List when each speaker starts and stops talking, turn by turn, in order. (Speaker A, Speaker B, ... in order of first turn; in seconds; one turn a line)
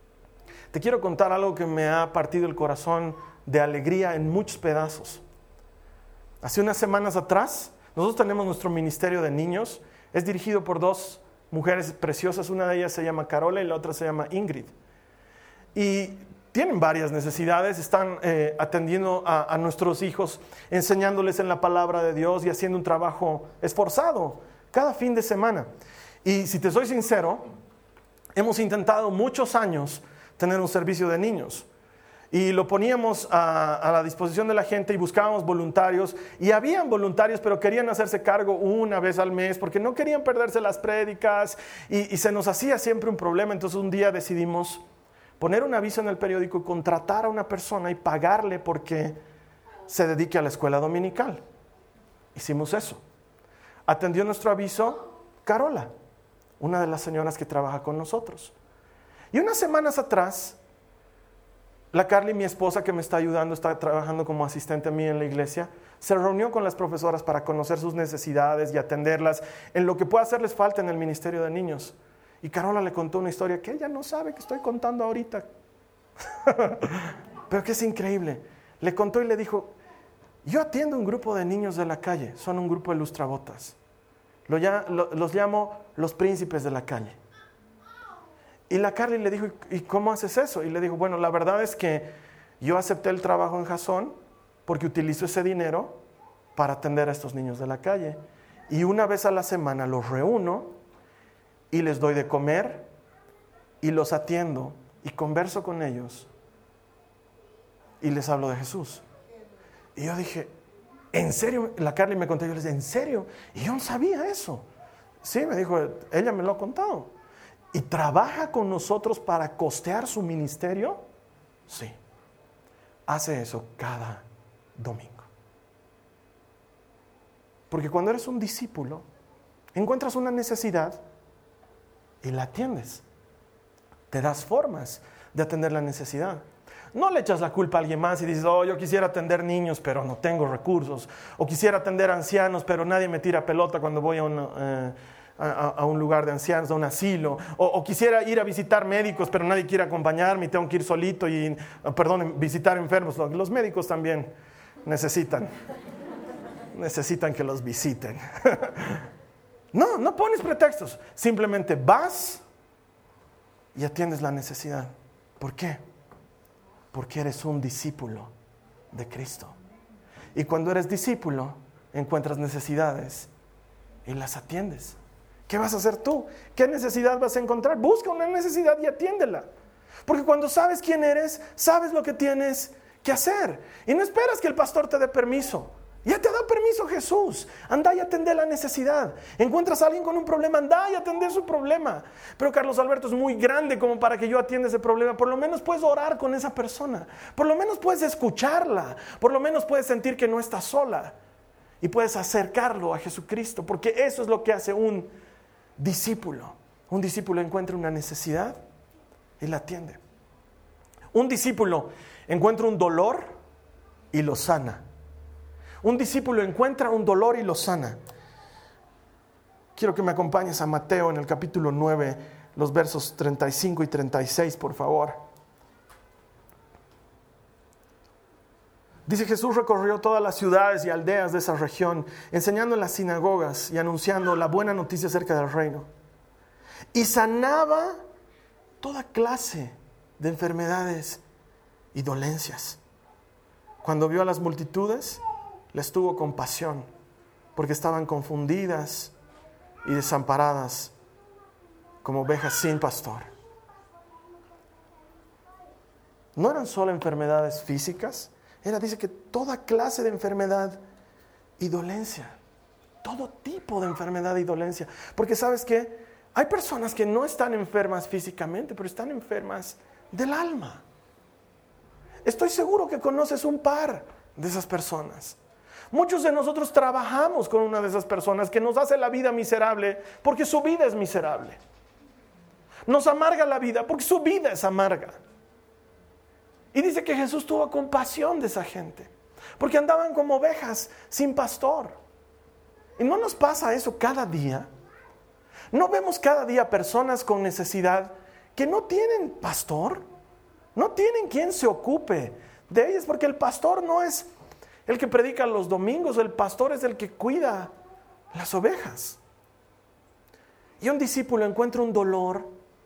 Speaker A: 0.7-5.2
Speaker A: 6.4-14.7
Speaker A: 15.7-25.7
Speaker A: 26.2-27.4
Speaker A: 28.3-31.7
Speaker A: 32.3-44.8
Speaker A: 45.4-49.2
Speaker A: 49.9-51.4
Speaker A: 52.3-53.0
Speaker A: 53.9-55.9
Speaker A: 56.6-58.5
Speaker A: 59.3-60.6
Speaker A: 61.9-75.5
Speaker A: 76.4-79.7
Speaker A: 80.4-83.8
Speaker A: 84.5-87.2
Speaker A: 88.7-92.1
Speaker A: 92.6-96.0
Speaker A: 96.5-100.7
Speaker A: 101.7-102.9
Speaker A: 103.8-106.3
Speaker A: 108.0-109.0
Speaker A: 110.0-110.5
Speaker A: 111.1-114.6
Speaker A: 115.2-117.1
Speaker A: 117.7-121.0
Speaker A: 121.7-122.0
Speaker A: 123.1-124.2
Speaker A: 124.8-125.3
Speaker A: 127.7-129.0
Speaker A: 129.7-131.0
Speaker A: 132.2-133.0
Speaker A: 134.1-154.3
Speaker A: 154.8-155.5
Speaker A: 156.7-159.0
Speaker A: 159.7-162.4
Speaker A: 163.7-165.8
Speaker A: 166.9-168.3
Speaker A: 168.9-169.6
Speaker A: 170.3-173.3
Speaker A: 174.0-179.5
Speaker A: 180.1-201.2
Speaker A: 201.8-205.1
Speaker A: 205.8-208.6
Speaker A: 209.4-210.0
Speaker A: 211.1-213.3
Speaker A: 214.1-214.8
Speaker A: 215.8-218.0
Speaker A: 219.7-225.2
Speaker A: 229.1-235.9
Speaker A: 236.9-238.0
Speaker A: 238.8-241.2
Speaker A: 241.9-242.8
Speaker A: 243.8-245.2
Speaker A: 245.7-246.9
Speaker A: 247.6-249.1
Speaker A: 249.8-250.9
Speaker A: 252.0-253.3
Speaker A: 256.4-260.8
Speaker A: 261.6-262.4
Speaker A: 263.0-270.8
Speaker A: 272.2-275.4
Speaker A: 275.9-281.6
Speaker A: 282.9-285.2
Speaker A: 286.7-292.0
Speaker A: 293.0-294.7
Speaker A: 295.7-300.0
Speaker A: 300.7-304.3
Speaker A: 304.9-307.7
Speaker A: 308.3-309.2
Speaker A: 310.8-312.5